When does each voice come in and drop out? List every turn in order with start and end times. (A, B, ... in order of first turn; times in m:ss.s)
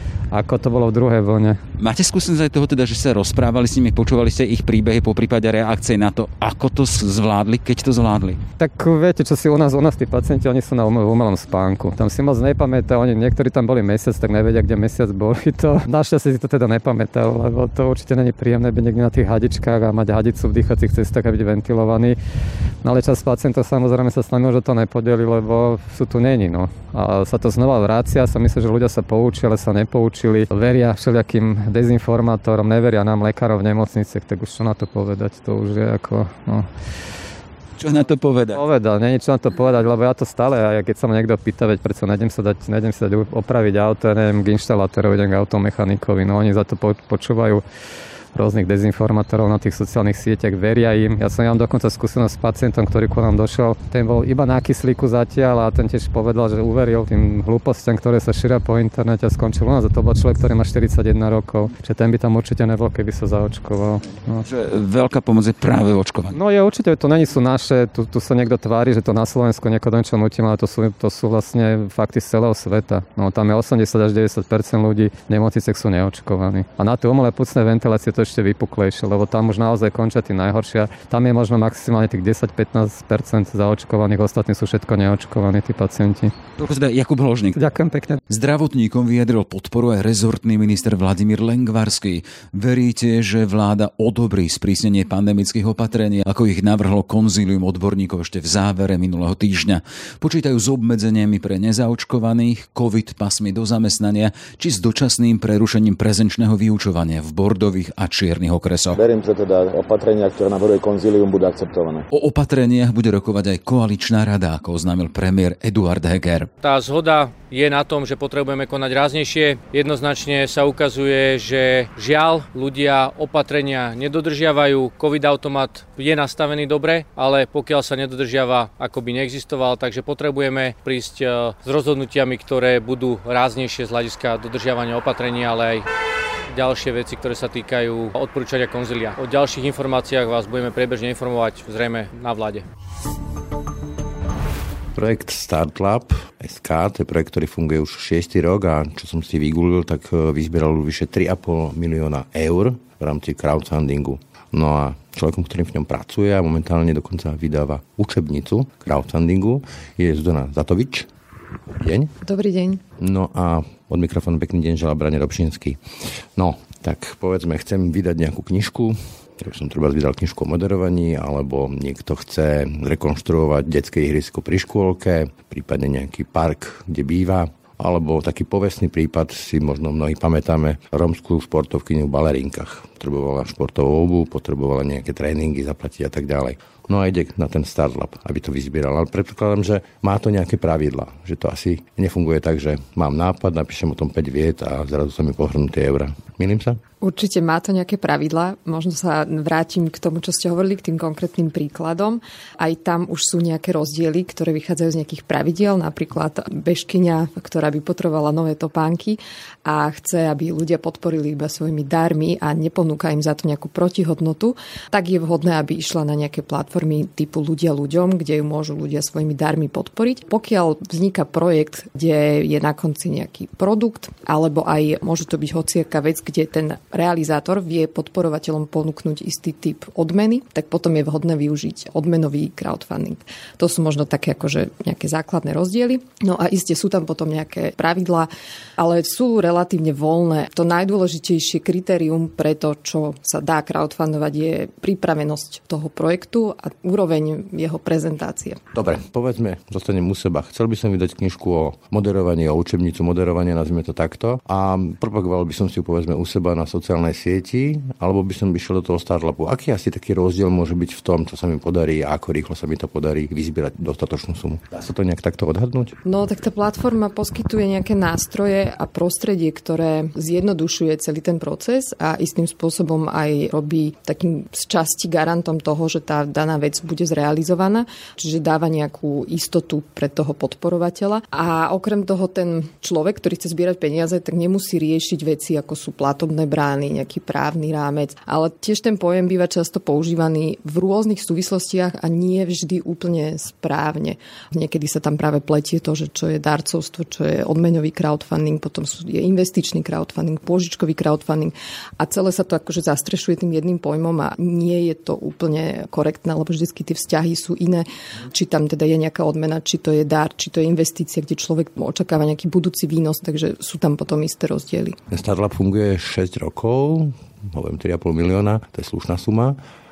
0:00.3-0:01.6 A
0:01.8-0:08.4 B
0:08.6-0:22.2 A
0:22.8-0:36.7 A
0:37.8-0:38.6 B
0:38.5-0:47.6 A
0:48.3-1:04.4 A
1:04.4-1:06.4 B
1:06.3-1:26.3 A
1:26.6-1:27.6 B
1:27.6-1:28.2 A
1:28.3-1:49.0 B
1:48.9-1:52.0 C
1:52.1-1:56.5 B
1:56.6-2:15.8 D
2:16.5-2:22.6 D
2:24.9-2:41.1 E
2:41.7-2:42.1 E
2:42.2-2:42.8 F
2:43.0-2:45.8 E
2:46.4-3:16.8 E
3:17.0-4:08.6 F
4:08.7-4:26.0 E
4:26.0-5:15.0 F
5:15.1-5:19.6 E